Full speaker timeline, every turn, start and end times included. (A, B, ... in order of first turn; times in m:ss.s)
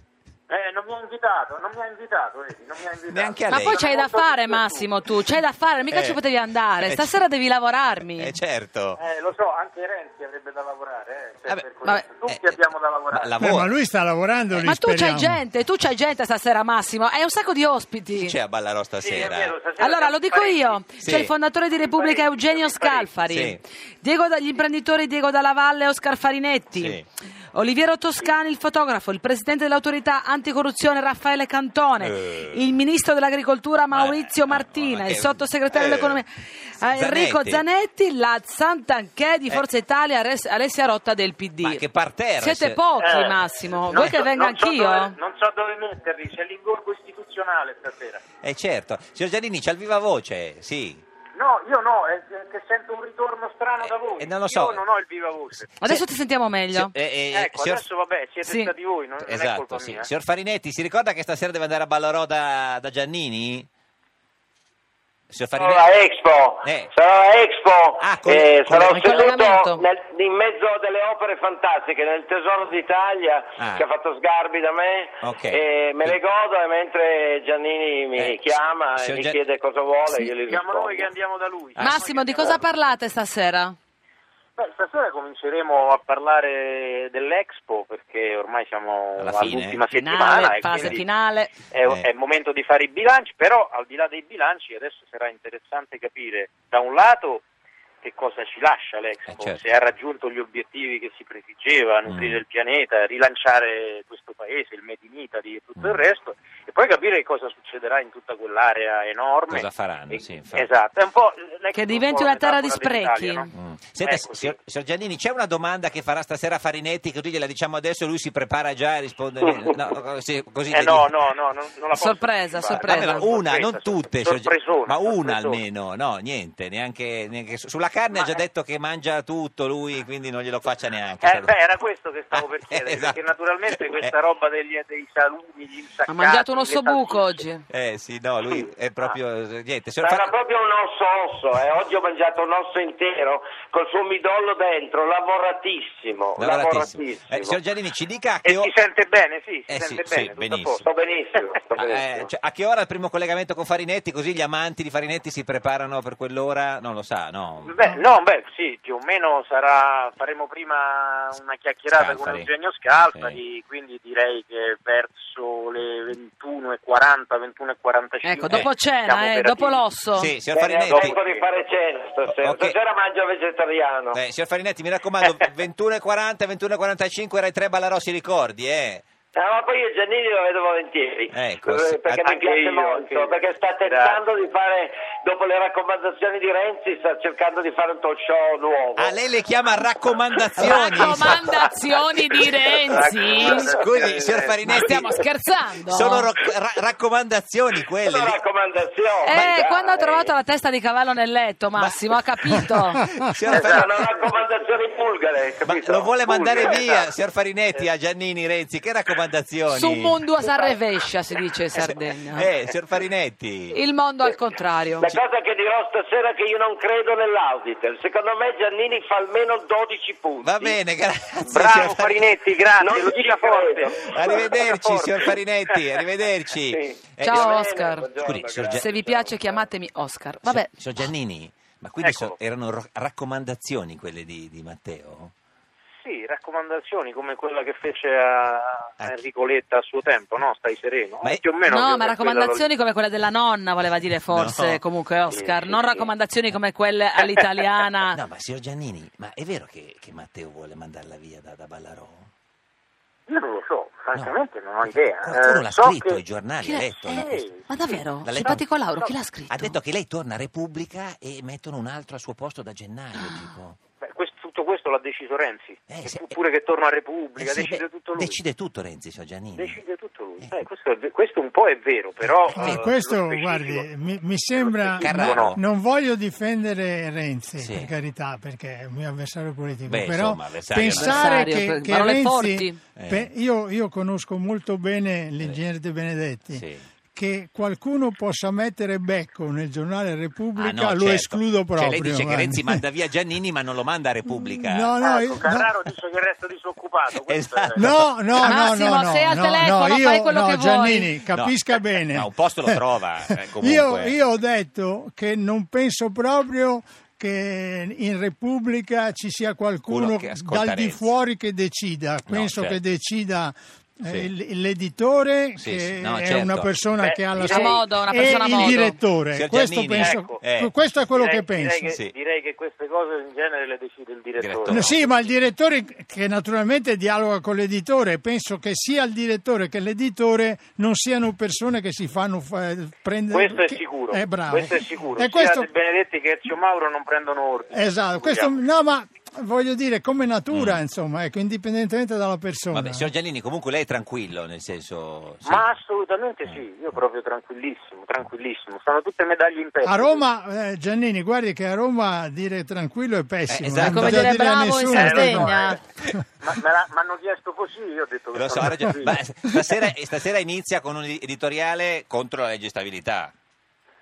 0:00.5-0:04.9 A
0:03.1-0:03.8 B
0:03.5-0:08.4 C
0:05.9-0:06.2 B
0:06.8-0:07.2 B
0:08.0-0:09.0 B
0:09.0-0:13.3 A
0:12.3-0:13.7 B
0:13.4-0:15.4 D
0:14.5-0:18.4 C
0:18.2-0:19.6 B
0:19.0-0:20.8 A
0:19.8-0:27.0 C
0:21.0-0:21.3 B
0:21.7-0:23.2 A
0:23.3-0:23.6 B
0:26.8-0:27.0 B
0:27.5-0:41.8 C
0:32.0-0:32.6 B
0:33.9-0:36.2 B
0:36.9-0:37.6 B
0:41.6-0:42.8 B
0:42.4-0:45.2 C
0:43.0-0:48.2 A
0:48.4-0:51.0 B
0:51.4-0:55.7 A
0:53.8-0:54.8 B
0:55.8-0:56.9 C
0:56.7-0:57.8 B
0:57.3-1:00.1 A
0:58.4-0:58.7 C
0:59.2-1:03.7 B
1:05.3-1:05.9 B
1:05.6-1:21.1 E
1:06.6-1:06.9 B
1:08.0-1:09.2 B
1:08.8-1:09.9 C
1:13.6-1:13.8 B
1:15.2-1:16.2 B
1:18.2-1:19.4 B
1:20.5-1:22.6 A
1:21.8-1:22.6 B
1:21.8-1:23.8 C
1:24.6-1:31.1 A
1:29.2-1:29.8 B
1:29.9-1:31.5 C
1:31.7-1:37.4 A
1:38.0-1:53.5 A
1:39.3-1:39.6 B
1:42.1-1:42.4 B
1:49.5-1:50.7 B
1:51.7-1:53.5 C
1:53.5-2:01.1 B
1:54.0-1:54.6 A
1:59.4-1:59.8 A
2:00.7-2:05.6 A
2:01.9-2:03.3 C
2:02.7-2:11.5 B
2:08.1-2:08.4 A
2:11.2-2:17.4 A
2:12.3-2:14.2 B
2:16.1-2:17.6 C
2:17.7-2:20.3 B
2:18.4-2:19.2 A
2:20.0-2:27.6 E
2:26.4-2:28.7 B
2:28.4-2:30.9 A
2:29.7-2:30.8 B
2:30.8-2:32.3 E
2:31.8-2:37.8 B
2:37.6-2:49.8 A
2:41.9-2:42.5 B
2:43.1-2:43.4 B
2:48.2-2:50.3 C
2:50.2-2:51.2 B
2:50.5-2:54.2 E
2:50.7-2:51.8 A
2:52.4-2:52.8 B
2:54.1-2:59.0 B
2:59.3-3:09.2 E
3:01.3-3:02.2 B
3:02.2-3:04.3 A
3:09.0-3:11.4 B
3:10.6-3:13.7 C
3:12.8-3:14.6 A
3:13.3-3:15.3 B
3:14.7-3:16.3 C
3:15.9-3:18.4 B
3:18.0-3:20.3 E
3:19.2-3:23.0 C
3:21.8-3:23.9 B
3:23.5-3:25.9 E
3:23.5-3:23.9 A
3:25.6-3:30.2 B
3:25.8-3:27.0 A
3:26.6-3:27.0 E
3:29.7-3:32.5 C
3:31.8-3:33.8 B
3:33.7-3:35.1 C
3:35.0-3:40.8 E
3:40.4-3:42.3 B
3:41.4-3:46.0 A
3:42.8-3:44.0 E
3:43.9-3:47.5 B
3:46.7-3:49.7 E
3:47.2-3:48.2 C
3:48.2-3:48.9 B
3:48.7-3:50.7 C
3:50.4-3:55.3 B
3:52.0-3:52.4 A
3:56.0-4:02.7 A
4:01.7-4:08.2 C
4:04.3-4:04.8 B
4:05.3-4:06.1 A
4:08.1-4:12.3 B
4:13.3-4:16.2 A
4:15.2-4:17.5 B
4:16.6-4:19.8 C
4:17.1-4:18.0 A
4:18.2-4:18.6 B
4:19.5-4:23.8 B
4:23.2-4:23.5 C
4:24.0-4:28.4 A
4:25.9-4:26.4 B
4:27.4-4:29.8 B
4:29.6-4:33.9 A
4:32.5-4:32.8 B
4:32.5-4:52.8 D
4:34.6-4:35.6 A
4:35.0-4:35.6 B
4:37.6-4:37.9 B
4:39.9-4:41.3 B
4:40.9-4:42.8 C
4:43.0-4:43.3 B
4:46.5-4:46.8 B
4:50.6-4:54.9 B
4:54.3-4:55.8 D
4:55.0-4:57.9 A
4:57.3-4:58.4 B
4:57.8-5:21.9 D
4:58.4-5:01.1 C
5:01.3-5:04.2 B
5:09.9-5:11.1 B
5:12.3-5:12.8 B
5:14.0-5:14.3 B
5:15.6-5:16.7 B
5:17.0-5:18.8 A
5:17.4-5:19.0 C
5:19.3-5:20.7 B
5:20.0-5:20.4 A
5:21.1-5:25.1 A
5:24.4-5:25.0 B
5:24.7-5:35.7 D
5:33.3-5:38.6 A
5:37.7-5:43.1 D
5:40.5-5:40.8 B
5:42.7-5:45.7 B
5:45.4-5:50.2 A
5:49.8-5:56.2 D
5:53.5-5:54.4 B
5:53.8-5:55.8 C
5:54.9-5:55.8 A
5:56.4-5:59.2 A
5:58.3-6:03.3 B
5:58.6-5:59.0 D